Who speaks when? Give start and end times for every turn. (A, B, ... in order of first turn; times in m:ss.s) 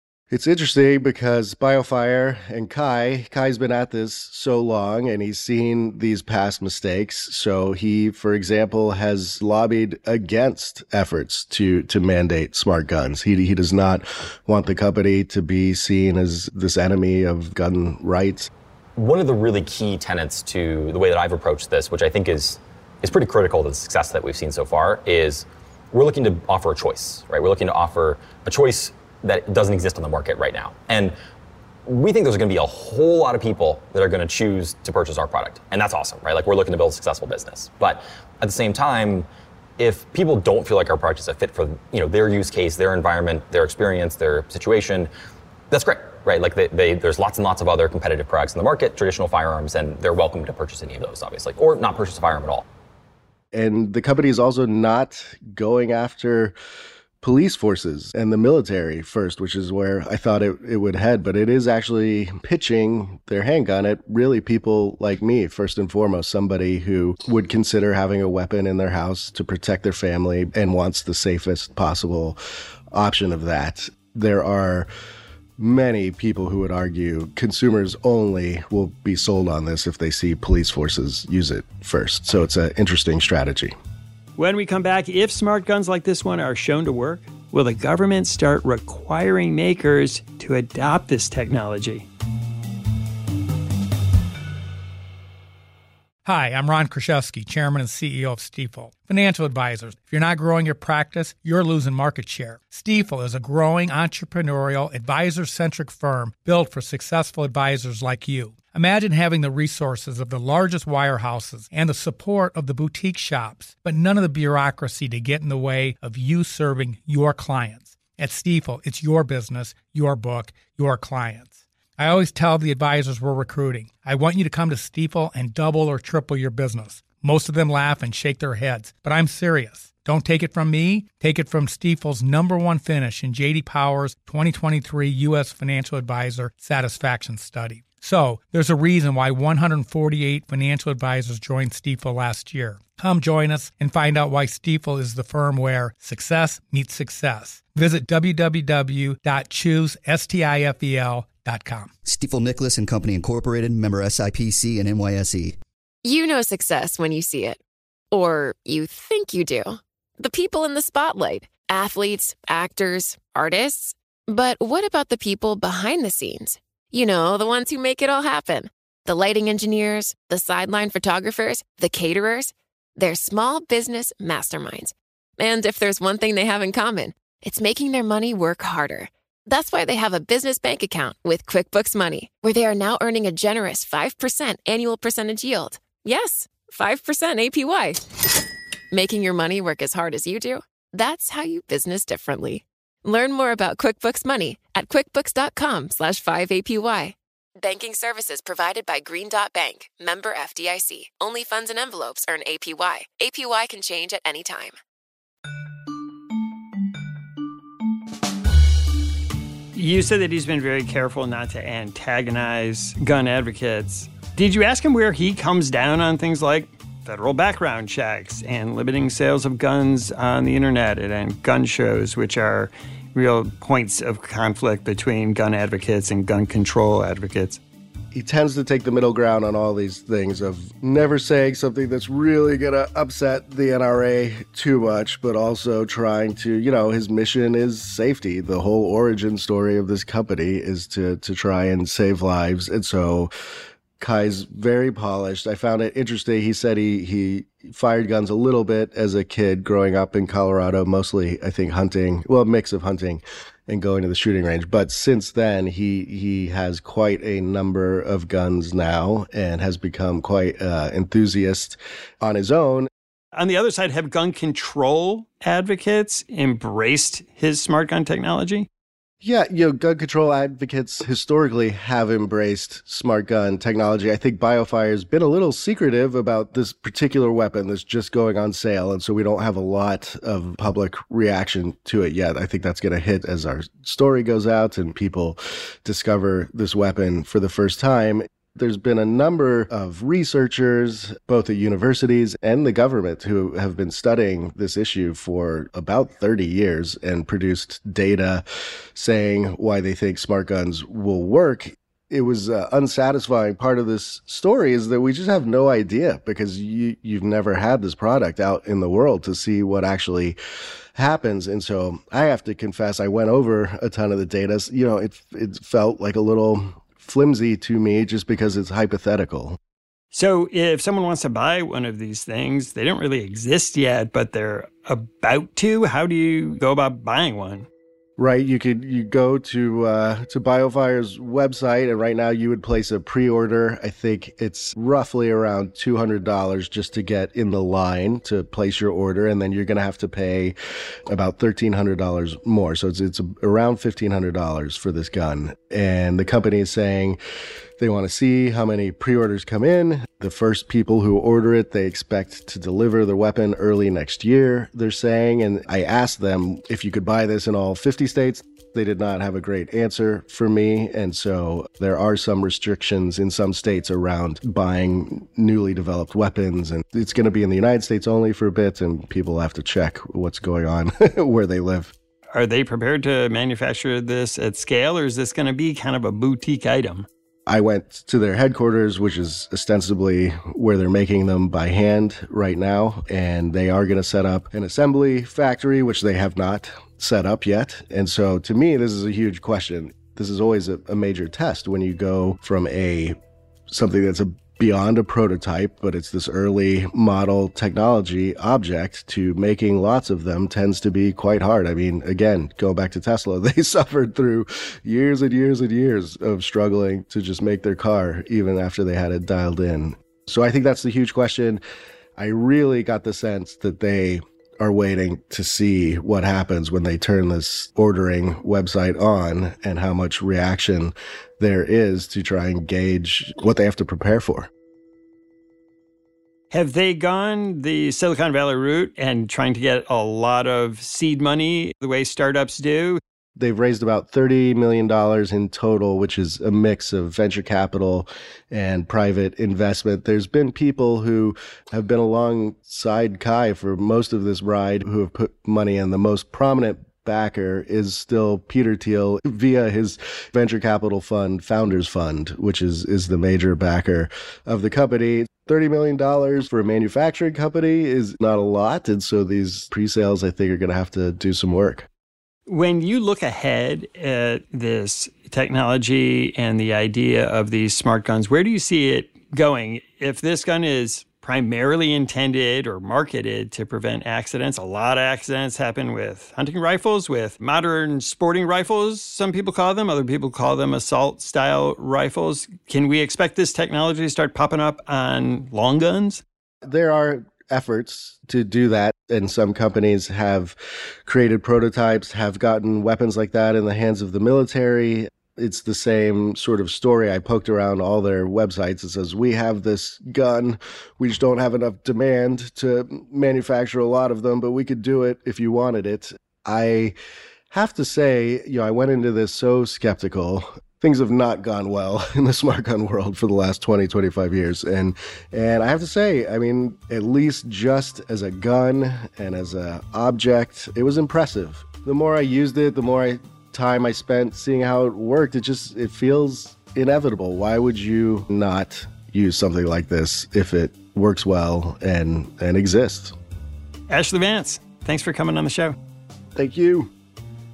0:00.3-0:18.5 A
0:19.0-0:31.1 B
0:31.8-0:39.3 B
0:39.8-0:45.1 B
0:45.7-0:52.6 B
0:53.5-0:56.5 A
0:57.2-1:12.4 A
1:12.9-1:14.9 A
1:15.6-1:23.7 A
1:24.4-1:32.1 C
1:36.2-2:31.9 D
2:32.0-2:35.6 E
2:36.0-2:37.6 F
2:38.1-3:08.0 F
3:08.9-3:24.8 F
3:29.7-3:47.6 C
3:48.1-4:03.3 A
4:04.0-4:22.9 A
4:23.3-4:28.7 C
4:29.2-4:58.4 A
4:58.9-5:10.4 A
5:11.0-5:19.6 A
5:20.1-5:27.7 C
5:28.2-5:40.6 A
5:41.1-5:47.2 A
5:47.8-6:11.9 A
6:12.3-6:17.1 C
6:17.5-6:33.2 A
6:33.7-6:51.6 A
6:52.2-7:04.5 A
7:06.5-7:13.0 C
7:13.4-7:41.9 A
7:42.5-8:06.2 C
8:06.6-8:27.0 A
8:27.5-8:53.2 A
8:53.9-8:55.8 C
8:56.4-8:56.9 A